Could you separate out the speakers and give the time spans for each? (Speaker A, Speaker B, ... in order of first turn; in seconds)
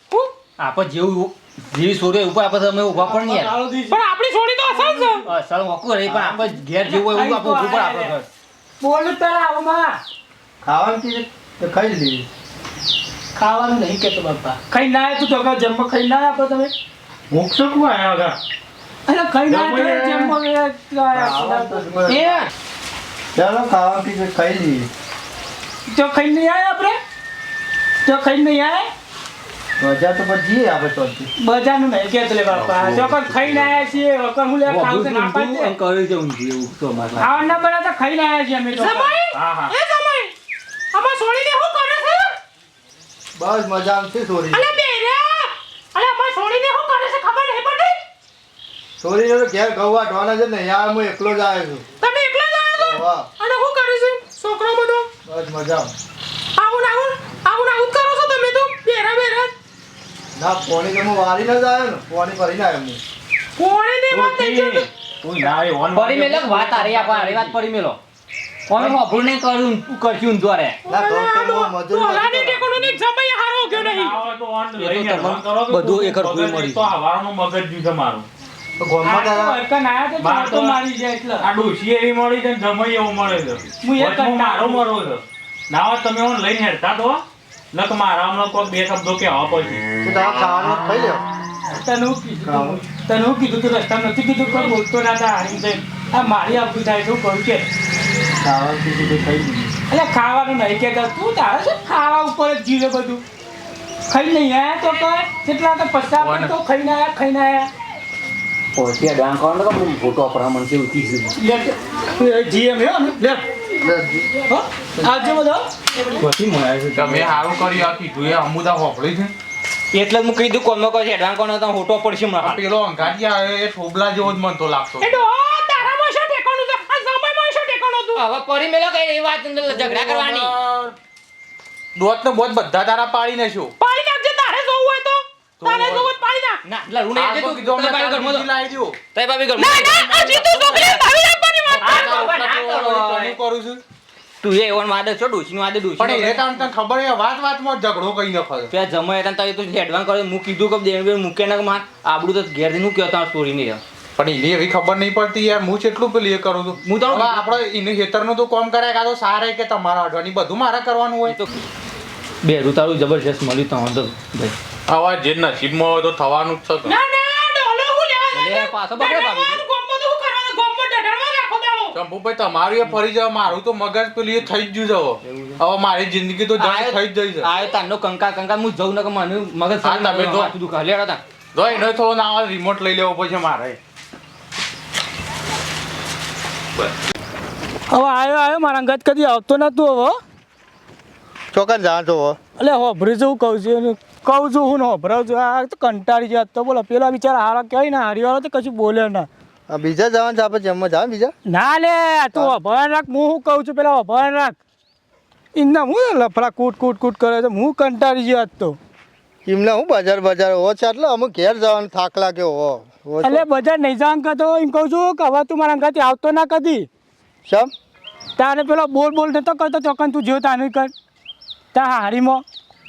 Speaker A: 0.6-3.5, 5.3-8.2, 22.1-22.4, 34.7-37.2, 66.0-68.0, 68.7-70.8, 74.8-76.8, 108.8-111.3, 116.2-117.3, 120.0-122.6, 128.2-130.5, 136.7-138.4, 139.1-139.9, 141.8-143.3, 144.4-146.4, 148.8-153.8, 156.8-157.5, 162.5-164.5, 168.4-169.6, 176.6-176.9, 177.5-181.2
Speaker B: 3.0-4.0, 4.7-5.2, 6.8-8.2, 8.8-10.0, 13.3-16.7, 19.1-22.2, 25.9-27.0, 28.0-28.9, 31.4-35.8, 37.2-39.1, 79.0-81.5, 83.8-84.8, 91.7-97.7, 99.9-103.2, 104.1-107.7, 111.4-113.5, 114.5-115.7, 187.9-190.2, 192.6-199.3, 201.5-204.6, 205.6-208.8, 213.2-216.9, 218.4-220.9, 221.7-222.4
Speaker C: 3.9-5.3, 38.8-40.3, 40.9-42.4, 44.5-48.0, 52.0-55.1, 56.6-59.5, 63.6-64.9, 70.9-74.2, 125.0-128.2, 133.8-136.6, 139.6-142.4, 166.8-172.0
Speaker D: 6.1-6.4, 10.6-12.3, 21.1-22.5, 23.4-24.9, 29.8-31.3, 43.4-44.8, 49.0-51.9, 52.8-53.3, 55.2-55.9, 60.4-63.0, 70.9-73.0, 78.8-79.4, 90.0-91.2, 92.4-92.8, 98.4-99.7, 113.8-114.3, 191.5-192.4, 199.7-201.3, 209.5-213.5, 217.5-217.7
Speaker E: 17.3-18.4, 19.5-20.3, 39.3-39.7, 64.1-67.6, 68.7-69.0, 73.7-78.3, 79.1-79.4, 80.2-80.8, 81.4-89.8, 106.2-106.5, 116.9-119.3, 122.4-125.2, 129.6-130.9, 131.9-133.8, 135.6-136.1, 137.1-139.0, 139.8-140.9, 141.7-143.8, 146.0-148.7, 154.2-161.4, 164.9-167.0, 171.9-177.7, 179.8-180.6, 181.5-183.8